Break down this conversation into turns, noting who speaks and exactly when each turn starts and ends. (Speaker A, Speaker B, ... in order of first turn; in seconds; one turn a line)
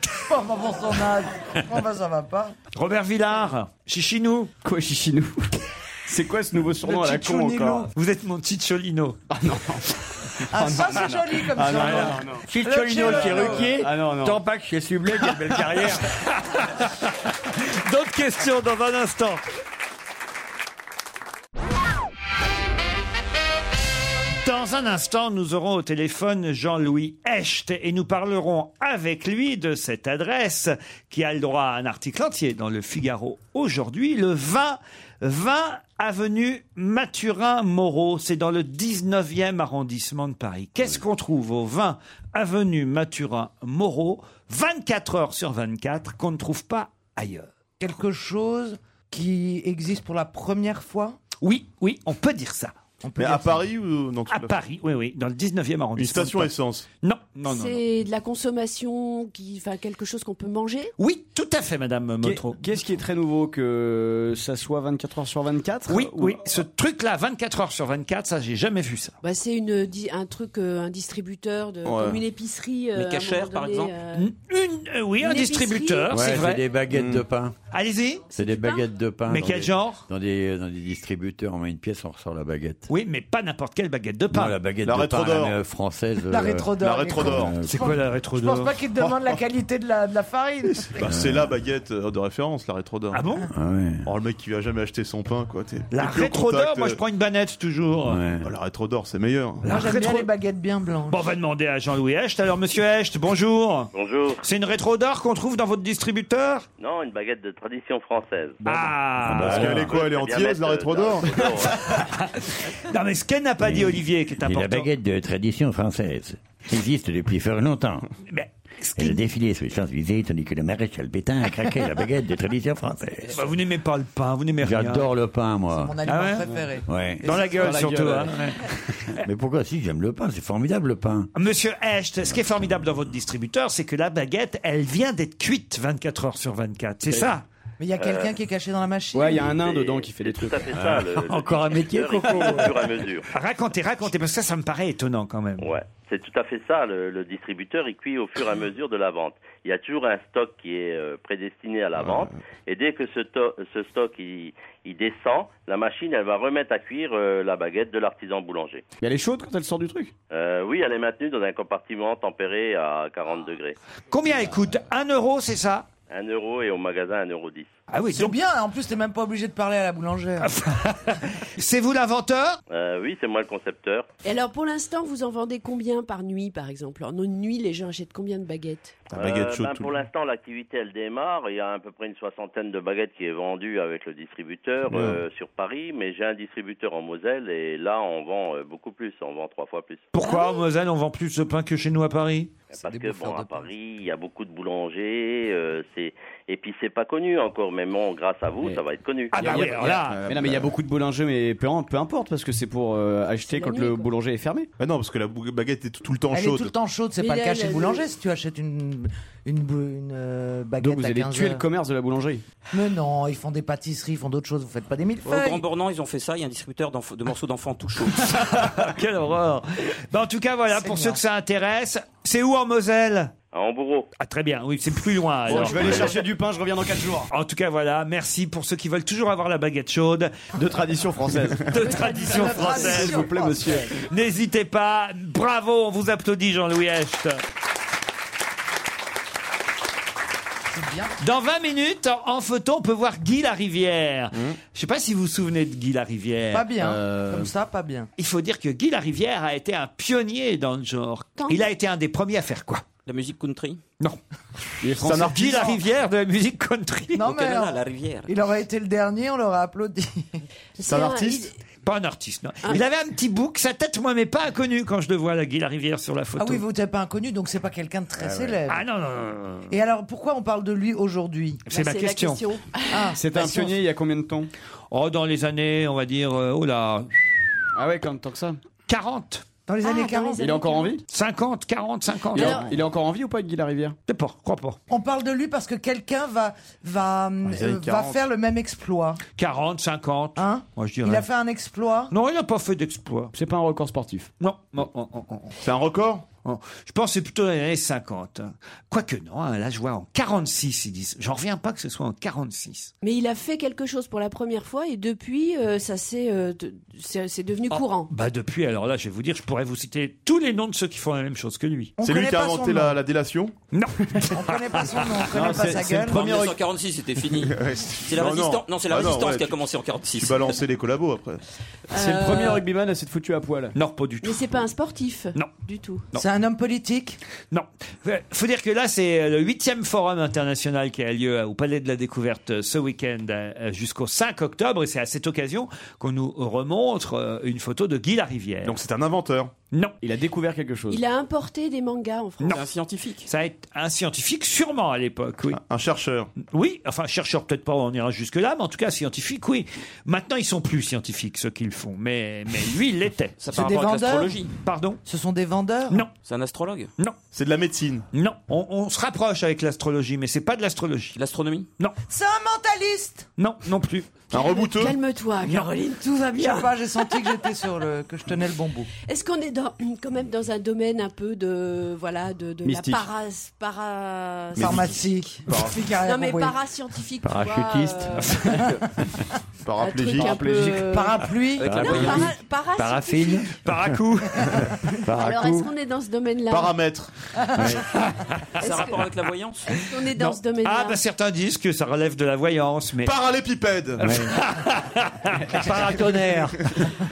Speaker A: 0.3-2.5
Speaker B: 2.7-4.5
Speaker C: 4.6-7.9
Speaker A: 6.8-7.8
Speaker B: 7.8-9.2
Speaker C: 9.3-12.4
Speaker A: 10.5-13.7
Speaker D: 12.4-16.1
Speaker C: 13.0-14.4
Speaker B: 16.4-19.4
Speaker B: 24.4-47.5
Speaker A: 47.8-51.2
Speaker B: 51.4-52.8
Speaker A: 53.0-53.6
Speaker E: 53.2-54.5
Speaker B: 54.3-56.5
Speaker E: 56.0-56.9
Speaker B: 57.0-57.8
Speaker F: 57.4-60.9
Speaker B: 61.0-62.6
Speaker C: 62.2-66.5
Speaker B: 65.9-69.2
Speaker F: 69.2-74.3
Speaker E: 71.8-72.2
Speaker G: 73.0-74.0
Speaker B: 74.1-76.6
Speaker F: 75.2-76.4
Speaker D: 76.1-77.6
Speaker E: 76.9-77.2
Speaker B: 77.7-78.3
Speaker D: 78.3-82.9
Speaker F: 78.3-78.9
Speaker B: 79.3-80.0
Speaker B: 82.9-84.6
Speaker D: 84.3-88.0
Speaker E: 84.8-85.6
Speaker A: 86.3-91.0
Speaker E: 86.8-87.6
Speaker B: 87.7-88.7
Speaker E: 90.9-93.2
Speaker D: 91.0-91.5
Speaker B: 93.1-93.5
Speaker D: 93.5-94.1
Speaker E: 94.0-97.0
Speaker B: 95.9-98.2
Speaker D: 98.1-98.5
Speaker E: 98.4-99.7
Speaker B: 99.7-100.3
Speaker A: 99.7-101.3
Speaker B: 101.1-106.7
Speaker H: 103.9-104.5
Speaker H: 106.8-108.6
Speaker B: 108.7-109.9
Speaker D: 108.7-110.0
Speaker E: 109.4-111.7
Speaker H: 109.9-111.7
Speaker B: 111.9-114.9
Speaker D: 113.6-118.1
Speaker B: 118.3-119.2
Speaker D: 119.0-123.4
Speaker B: 123.3-125.1
Speaker D: 124.6-126.0
Speaker A: 125.7-126.9
Speaker B: 126.1-126.5
Speaker D: 126.9-127.4
Speaker C: 127.2-128.4
Speaker B: 127.2-129.2
Speaker D: 129.2-131.3
Speaker B: 131.3-137.4
Speaker D: 132.2-132.9
Speaker A: 137.8-139.6
Speaker H: 138.0-138.3
Speaker C: 139.1-140.7
Speaker H: 139.5-143.3
Speaker D: 140.7-143.2
Speaker B: 143.3-145.7
Speaker H: 145.6-158.8
Speaker E: 152.0-152.4
Speaker C: 159.0-160.1
Speaker H: 160.3-163.8
Speaker B: 164.1-165.9
Speaker H: 166.1-167.7
Speaker B: 167.9-168.4
Speaker A: 168.1-170.5
Speaker B: 170.4-172.6
Speaker H: 172.7-174.1
Speaker F: 174.2-179.0
Speaker E: 179.1-180.1
Speaker H: 179.2-190.1
Speaker E: 184.9-185.2
Speaker B: 190.1-192.5
Speaker F: 190.2-190.6
Speaker H: 192.7-199.4
Speaker A: 192.8-193.7
Speaker B: 199.3-200.2
Speaker C: 199.3-204.7
Speaker E: 199.4-200.7
Speaker F: 203.5-204.1
Speaker E: 204.8-206.7
Speaker A: 206.3-211.7
Speaker F: 207.2-208.1
Speaker C: 210.8-212.4
Speaker A: 212.7-215.7
Speaker G: 215.2-218.4
Speaker B: 218.5-223.3
Speaker A: 220.7-221.2
Speaker H: 223.5-224.1
Speaker B: 224.2-226.2
Speaker C: 225.5-227.3
Speaker B: 227.3-230.4
Speaker C: 230.6-234.0
Speaker B: 231.7-233.3
Speaker F: 231.8-233.2
Speaker A: 232.2-233.8
Speaker B: 233.9-237.4
Speaker A: 240.7-241.1
Speaker B: 241.2-246.7
Speaker A: 246.5-248.1
Speaker D: 246.8-247.3
Speaker B: 248.2-252.9
Speaker G: 253.1-253.8
Speaker C: 254.8-255.8
Speaker B: 254.9-257.3
Speaker A: 257.1-260.4
Speaker G: 257.2-258.3
Speaker F: 260.8-261.6
Speaker E: 260.8-261.5
Speaker B: 261.8-266.6
Speaker A: 266.4-268.8
Speaker D: 268.2-268.6
Speaker B: 268.7-269.7
Speaker A: 269.7-271.7
Speaker B: 271.7-272.5
Speaker F: 271.7-273.2
Speaker A: 272.9-273.6
Speaker C: 273.2-274.5
Speaker B: 274.9-277.1
Speaker C: 277.7-278.6
Speaker B: 278.9-279.5
Speaker A: 279.7-280.4
Speaker F: 279.8-281.0
Speaker C: 280.4-281.0
Speaker B: 281.1-282.7
Speaker F: 282.4-282.7
Speaker C: 282.4-284.0
Speaker B: 284.1-284.8
Speaker A: 284.9-289.2
Speaker E: 287.5-288.3
Speaker B: 289.4-291.2
Speaker A: 290.4-292.1
Speaker B: 292.1-293.3
Speaker C: 293.3-294.3
Speaker B: 294.4-295.6
Speaker E: 295.6-296.3
Speaker B: 296.4-302.9
Speaker F: 303.0-308.1
Speaker B: 307.7-311.9
Speaker A: 312.0-313.0
Speaker E: 312.0-313.6
Speaker B: 313.7-315.3
Speaker A: 314.3-316.2
Speaker C: 315.3-316.6
Speaker G: 316.1-320.6
Speaker E: 317.4-321.4
Speaker F: 321.9-322.6
Speaker C: 321.9-323.8
Speaker B: 323.8-324.6
Speaker F: 324.2-326.1
Speaker A: 326.2-327.2
Speaker B: 327.5-338.8
Speaker E: 338.6-339.5
Speaker B: 339.7-340.0
Speaker C: 340.0-341.0
Speaker F: 340.9-342.6
Speaker G: 342.5-343.3
Speaker B: 343.2-345.6
Speaker E: 345.5-346.3
Speaker B: 346.5-353.4
Speaker G: 353.4-354.5
Speaker A: 353.5-354.4
Speaker B: 354.6-355.0
Speaker A: 355.1-356.1
Speaker G: 356.2-356.9
Speaker E: 357.3-358.1
Speaker B: 358.1-361.2
Speaker G: 361.1-361.7
Speaker A: 362.1-363.3
Speaker B: 363.4-364.2
Speaker E: 364.3-365.0
Speaker F: 364.3-367.5
Speaker B: 365.4-365.7
Speaker A: 366.0-368.9
Speaker F: 369.1-378.6
Speaker C: 372.6-373.1
Speaker C: 374.6-375.8
Speaker A: 374.6-376.6
Speaker D: 377.2-378.4
Speaker E: 379.6-380.4
Speaker F: 379.8-383.6
Speaker C: 380.2-381.0
Speaker A: 380.8-382.2
Speaker D: 381.6-383.6
Speaker B: 383.6-384.5
Speaker D: 385.1-385.7
Speaker F: 385.1-386.8
Speaker E: 386.5-387.1
Speaker D: 387.6-387.9
Speaker B: 388.6-388.8
Speaker F: 388.6-389.1
Speaker G: 388.6-389.8
Speaker F: 389.6-391.0
Speaker B: 390.0-393.1
Speaker E: 393.0-394.3
Speaker D: 394.0-394.3
Speaker B: 394.1-396.6